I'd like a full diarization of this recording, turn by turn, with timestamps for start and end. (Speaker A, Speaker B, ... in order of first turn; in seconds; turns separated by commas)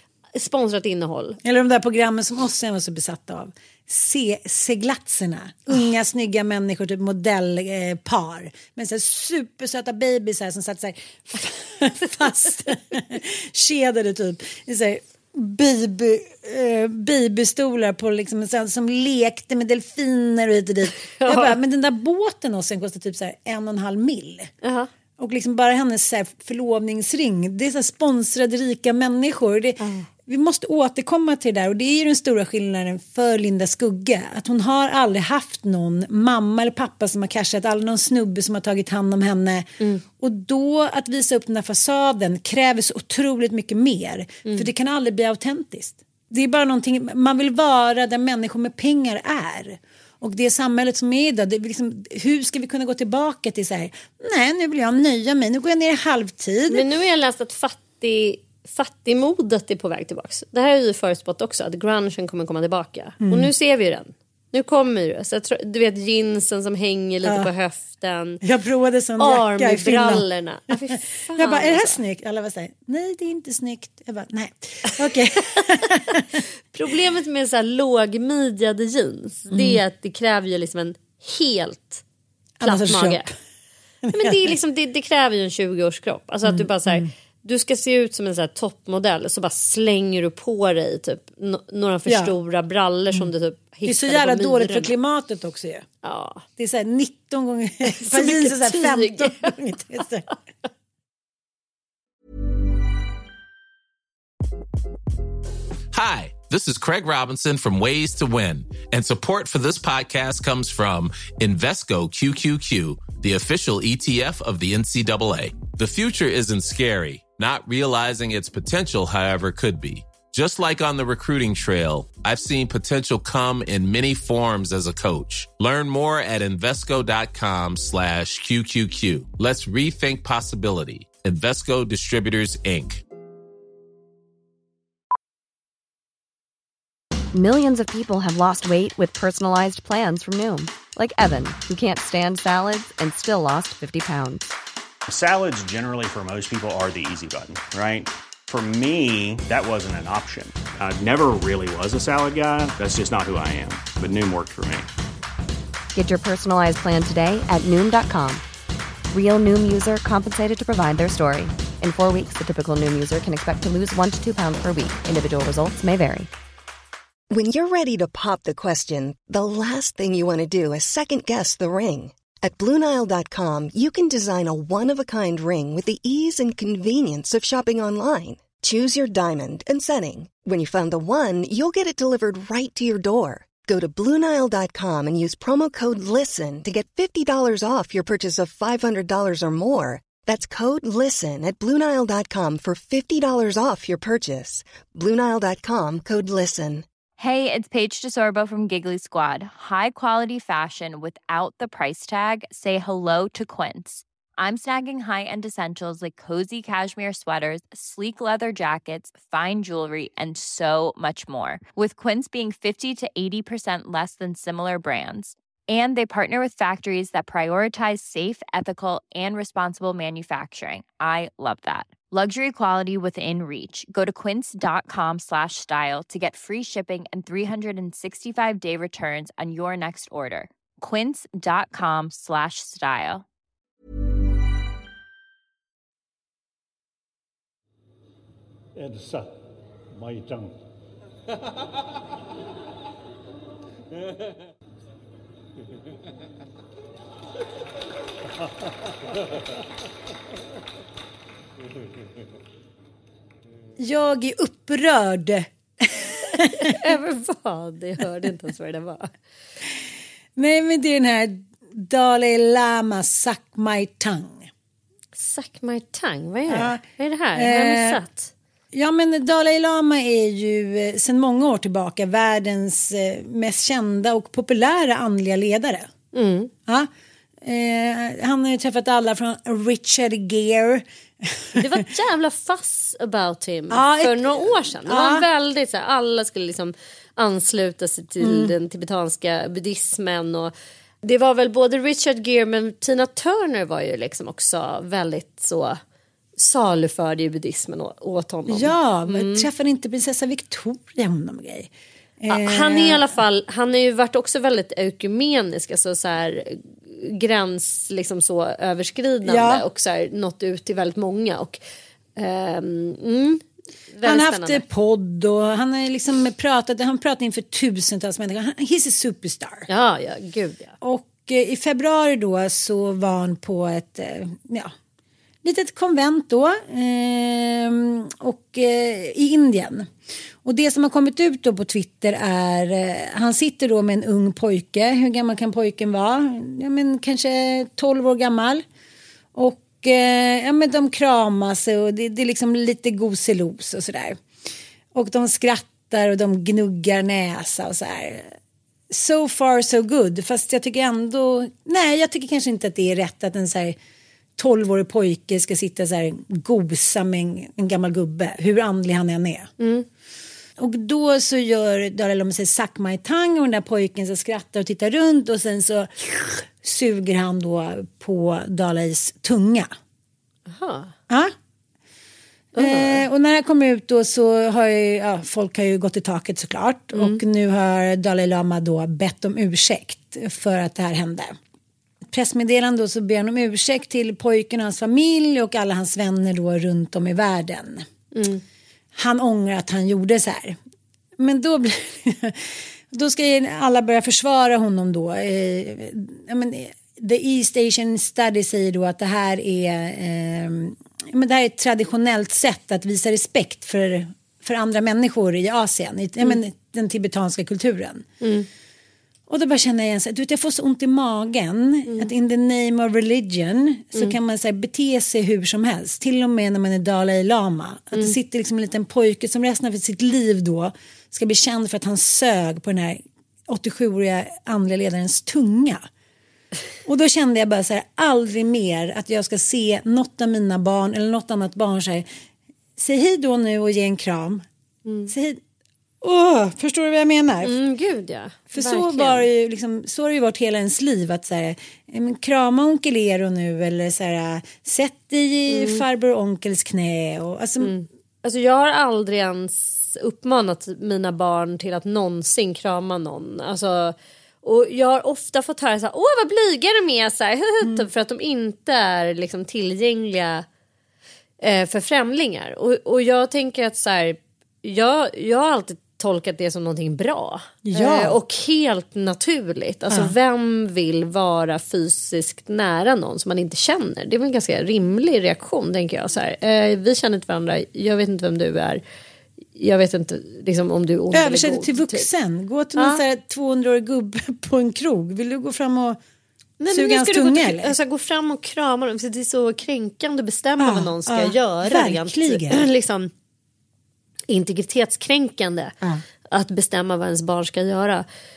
Speaker A: 0.3-1.4, Speaker B: 1.4-24.5, Speaker A: 21.1-21.6, Speaker A: 24.6-24.9, Speaker B: 25.2-56.8, Speaker A: 29.8-30.1, Speaker A: 44.4-44.7, Speaker A: 56.7-68.4, Speaker B: 63.2-63.5, Speaker B: 67.2-67.5, Speaker B: 68.4-76.3, Speaker A: 69.2-72.0, Speaker A: 75.5-82.0, Speaker B: 79.5-79.8, Speaker B: 82.6-83.3, Speaker A: 82.6-83.3, Speaker B: 84.0-84.5, Speaker A: 84.1-94.9, Speaker B: 86.4-87.1, Speaker B: 92.0-92.3, Speaker B: 93.8-95.9, Speaker A: 96.0-96.4, Speaker B: 96.6-100.3, Speaker A: 97.9-99.5, Speaker C: 105.9-133.0, Speaker D: 137.3-144.5, Speaker E: 145.1-154.9, Speaker D: 155.9-158.4, Speaker D: 159.1-166.3, Speaker F: 167.3-196.8, Speaker G: 197.2-233.2, Speaker B: 253.8-256.9, Speaker A: 256.5-259.1, Speaker B: 260.4-264.5, Speaker A: 265.1-268.3, Speaker B: 266.5-266.8, Speaker B: 267.3-268.0, Speaker B: 268.7-275.9, Speaker A: 276.1-276.5, Speaker B: 277.4-281.8, Speaker A: 281.6-290.5, Speaker B: 283.7-285.2, Speaker B: 288.2-288.5, Speaker A: 291.0-295.8, Speaker A: 296.4-299.5, Speaker B: 298.5-303.1, Speaker A: 302.3-311.6, Speaker B: 309.2-309.6, Speaker A: 312.1-314.6, Speaker B: 314.0-319.7, Speaker A: 319.7-320.7, Speaker B: 320.8-324.7, Speaker B: 325.4-329.9, Speaker B: 330.4-338.6, Speaker B: 339.3-344.2, Speaker B: 344.9-348.3, Speaker B: 348.9-353.8, Speaker B: 354.4-359.5, Speaker A: 359.6-359.9, Speaker B: 360.6-369.7, Speaker A: 370.5-370.9, Speaker A: 372.5-373.0, Speaker B: 372.6-381.4, Speaker A: 376.9-377.2, Speaker B: 382.1-387.8, Speaker A: 388.1-388.4, Speaker B: 388.9-390.6, Speaker B: 391.2-408.1, Speaker A: 408.2-408.5, Speaker B: 409.3-425.8, Speaker A: 411.9-412.1, Speaker B: 426.8-432.1, Speaker B: 432.8-434.4, Speaker A: 434.8-435.1, Speaker B: 435.1-435.4, Speaker B: 436.0-437.6, Speaker A: 437.4-439.2, Speaker B: 438.5-447.8, Speaker A: 445.5-445.8, Speaker A: 447.6-460.4, Speaker A: 461.4-478.8, Speaker B: 467.6-468.2, Speaker B: 469.9-470.1, Speaker A: 479.6-482.1, Speaker B: 481.1-486.0, Speaker A: 482.8-483.0, Speaker A: 486.6-493.1, Speaker B: 486.7-487.7, Speaker B: 490.6-492.6, Speaker A: 494.3-495.7, Speaker A: 496.3-498.0